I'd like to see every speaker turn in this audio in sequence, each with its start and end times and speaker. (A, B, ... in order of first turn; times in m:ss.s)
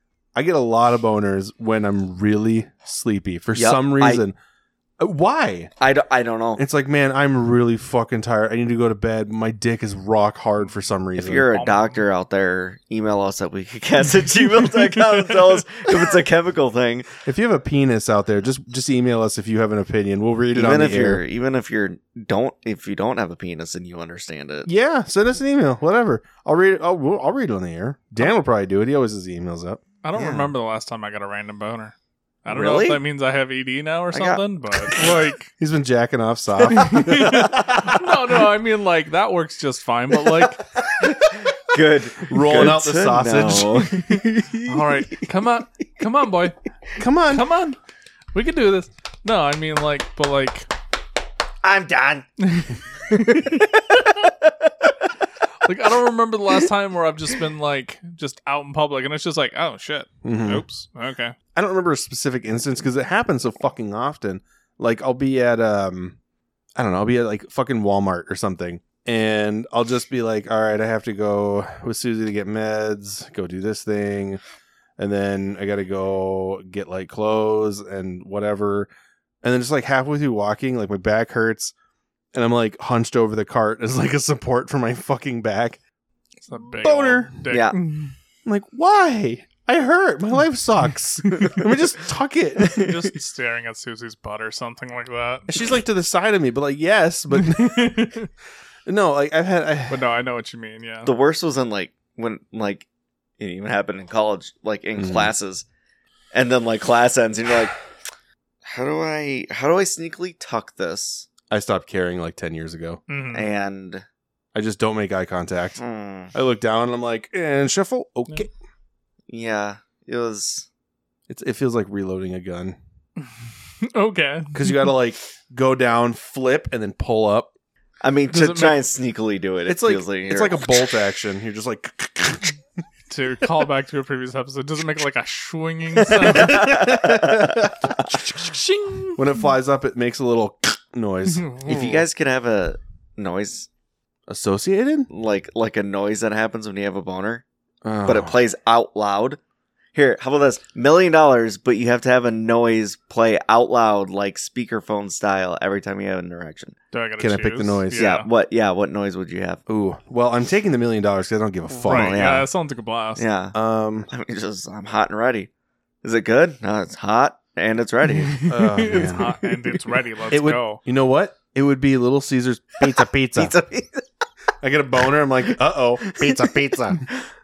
0:00.4-0:04.4 A
0:03.5-0:04.2 B
0:05.0-0:05.7 A
0:05.8-0:06.6 B
0:06.6-0:11.5 A
0:11.2-0:17.1 B
0:11.5-0:12.0 C
0:15.1-0:15.4 C
0:17.2-0:21.2 A
0:20.5-0:24.7 B
0:24.7-0:29.8 A
0:30.0-0:35.5 C
0:30.2-0:30.5 B
0:32.5-0:33.0 B
0:34.1-0:35.2 B
0:35.6-0:38.4 A
0:36.7-0:40.7 C
0:40.8-0:45.3 B
0:42.2-0:43.9 A
0:43.9-0:46.6 C
0:47.0-0:47.5 A
0:47.3-0:47.8 C
0:48.3-0:50.7 C
0:51.6-0:52.3 B
0:52.4-0:53.7 C
0:53.1-0:55.1 B
0:55.6-1:01.4 C
1:00.2-1:00.6 A
1:01.6-1:06.2 A
1:06.8-1:14.4 A
1:15.0-1:18.9 A
1:19.4-1:21.7 A
1:22.3-1:25.8 A
1:26.5-1:28.2 C
1:26.8-1:27.4 A
1:27.5-1:27.8 B
1:28.5-1:32.8 A
1:31.3-1:31.6 B
1:32.6-1:32.9 B
1:32.7-1:35.5 C
1:35.5-1:38.2 A
1:37.4-1:38.3 C
1:38.9-1:40.0 A
1:39.9-1:41.1 C
1:41.0-1:42.9 B
1:43.4-1:45.7 B
1:45.0-1:45.3 A
1:46.3-1:47.8 B
1:48.6-1:51.3 B
1:51.5-1:53.0 A
1:53.1-1:53.5 C
1:53.3-1:54.0 B
1:54.5-1:55.8 A
1:55.8-1:56.3 B
1:56.3-1:58.5 A
1:59.3-2:00.7 B
2:01.3-2:02.8 A
2:03.2-2:04.9 C
2:04.5-2:07.5 A
2:08.0-2:10.7 B
2:08.3-2:08.8 C
2:09.7-2:12.6 A
2:13.1-2:16.9 C
2:16.1-2:18.5 A
2:16.1-2:17.9 B
2:18.1-2:19.5 C
2:19.2-2:21.8 A
2:21.3-2:22.0 C
2:21.6-2:23.7 B
2:24.3-2:25.1 A
2:25.1-2:27.4 B
2:27.8-2:28.4 A
2:28.0-2:29.4 B
2:30.0-2:36.8 B
2:36.9-2:38.3 C
2:37.2-2:38.0 A
2:38.0-2:39.6 B
2:39.7-2:42.2 A
2:41.8-2:43.2 C
2:41.8-2:42.5 B
2:43.2-2:43.6 B
2:43.5-2:44.1 A
2:44.1-2:45.5 B
2:46.0-2:48.4 B
2:48.1-2:50.8 C
2:48.5-2:49.4 A
2:50.3-2:53.6 A
2:53.4-2:54.1 B
2:54.6-2:57.1 A
2:56.0-2:57.2 B